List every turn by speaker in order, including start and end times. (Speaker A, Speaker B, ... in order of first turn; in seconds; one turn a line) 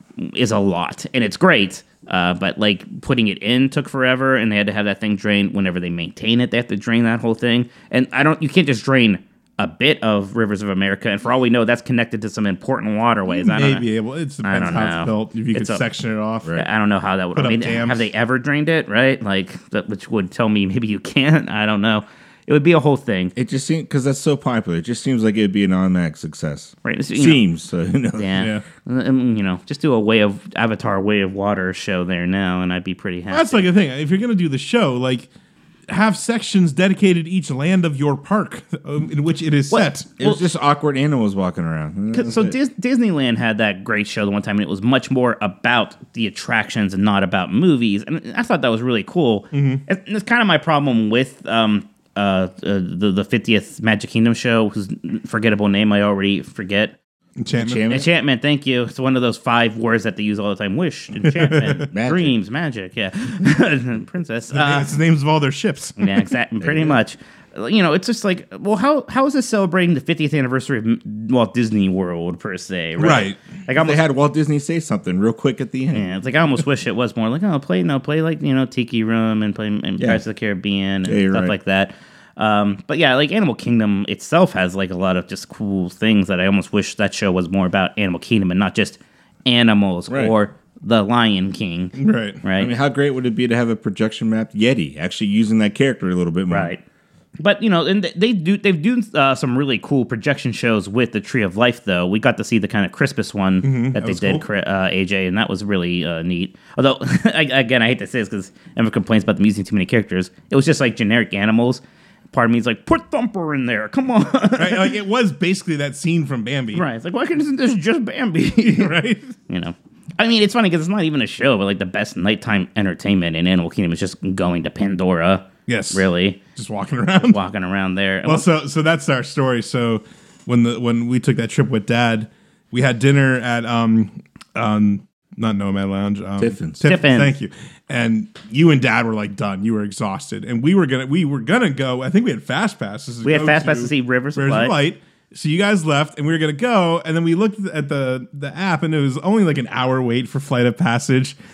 Speaker A: 0.2-13.9
Speaker B: 13.3-16.5
Speaker A: 14.4-15.8
Speaker A: 16.6-23.3
Speaker B: 17.4-18.1
Speaker C: 23.4-28.4
Speaker A: 26.8-27.4
Speaker A: 28.2-33.7
Speaker B: 28.4-28.6
Speaker B: 33.3-35.3
Speaker B: 35.9-40.1
Speaker A: 39.7-40.4
Speaker C: 40.2-42.5
Speaker A: 42.1-57.0
Speaker B: 49.5-49.8
Speaker B: 57.4-57.8
Speaker C: 57.5-58.1
Speaker A: 57.9-64.9
Speaker B: 61.2-61.9
Speaker C: 61.9-62.4
Speaker B: 64.5-66.3
Speaker A: 66.0-74.0
Speaker C: 66.6-67.0
Speaker B: 73.0-73.4
Speaker C: 73.7-76.1
Speaker A: 75.9-92.7
Speaker C: 81.0-81.5
Speaker C: 90.1-90.3
Speaker B: 92.0-92.4
Speaker C: 92.6-96.7
Speaker A: 96.5-96.8
Speaker A: 97.4-115.0
Speaker B: 103.6-104.5
Speaker B: 114.6-116.8
Speaker A: 116.7-126.4
Speaker B: 118.6-119.3
Speaker B: 125.7-127.4
Speaker A: 127.2-128.5
Speaker B: 128.2-151.3
Speaker C: 136.4-136.8
Speaker A: 136.8-137.3
Speaker A: 143.2-144.7